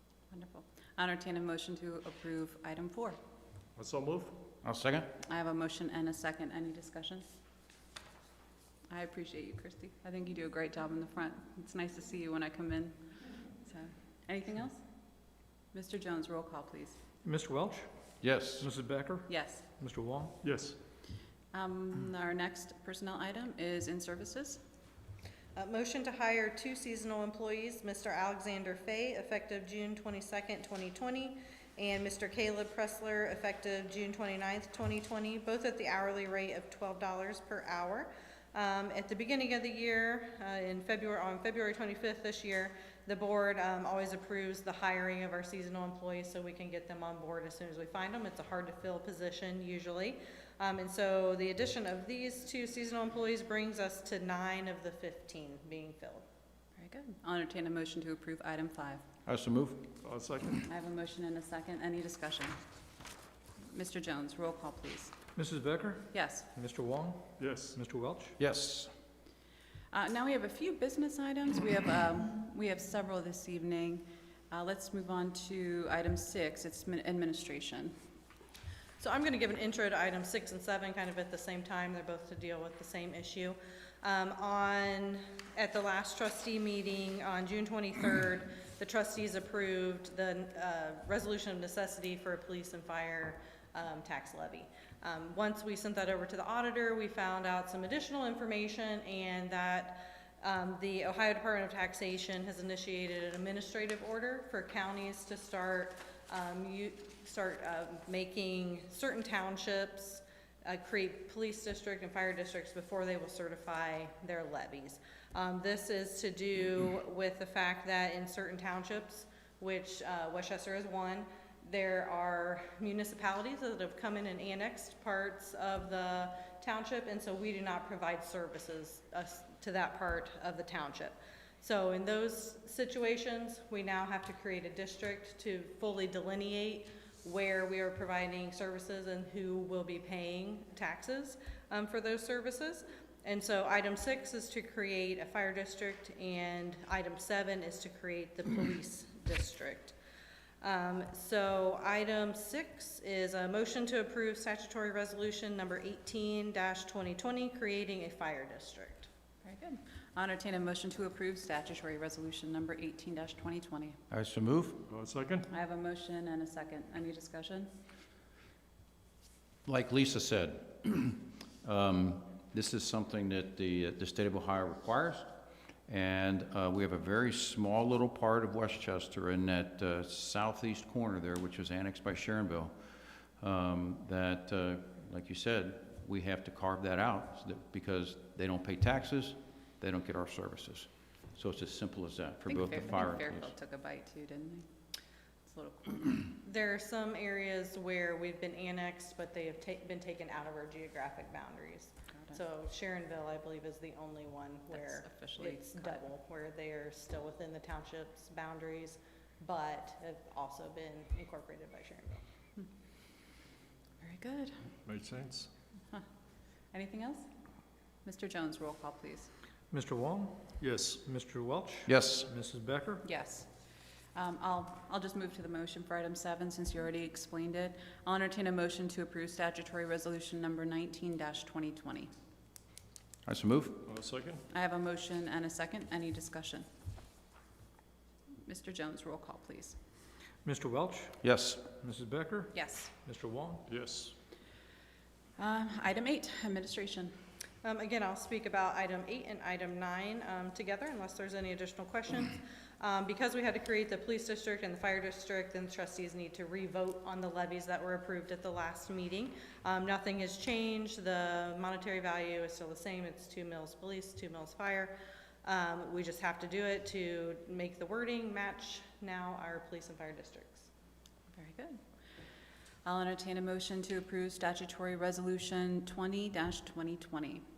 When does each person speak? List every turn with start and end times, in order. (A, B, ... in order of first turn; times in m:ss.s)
0:00.3-0:03.2 A
0:03.8-0:04.4 B
0:04.6-0:05.1 C
0:05.2-0:07.3 A
0:08.9-0:13.0 A
0:13.6-0:14.8 A
0:15.7-0:17.0 A
0:17.2-0:17.9 D
0:18.2-0:18.7 C
0:18.6-0:20.4 D
0:19.3-0:19.7 A
0:20.4-0:20.8 B
0:21.5-0:24.6 A
0:25.6-0:56.2 E
0:56.8-0:59.0 A
0:59.3-0:59.9 C
1:00.0-1:00.7 B
1:00.7-1:02.6 A
1:03.7-1:05.1 A
1:05.4-1:08.4 D
1:06.1-1:06.5 A
1:07.4-1:07.8 B
1:08.4-1:08.9 C
1:09.9-1:17.9 A
1:19.0-2:29.9 E
2:30.6-2:39.1 E
2:39.4-2:44.0 A
2:44.1-2:44.8 C
2:44.9-2:45.5 B
2:45.5-2:47.7 A
2:49.7-2:55.3 C
2:55.9-3:02.7 C
3:03.4-3:13.5 C
3:12.4-3:14.7 A
3:15.4-3:16.2 A
3:16.4-3:32.2 E
3:24.7-3:26.1 A
3:34.0-3:34.6 A
3:34.8-3:35.5 B
3:36.7-3:37.2 A
3:38.0-3:39.3 A
3:39.7-3:43.0 D
3:40.6-3:41.0 B
3:41.9-3:42.3 C
3:43.0-3:43.5 A
3:44.2-3:52.1 A
3:53.3-3:53.8 C
3:53.9-3:54.4 B
3:54.5-3:56.7 A
3:58.5-3:59.8 A
4:00.4-4:03.7 D
4:01.2-4:01.7 C
4:02.5-4:02.9 A
4:03.7-4:04.2 B
4:05.4-4:07.1 A
4:07.6-4:30.7 E
4:31.3-4:31.8 A
4:32.8-4:37.4 A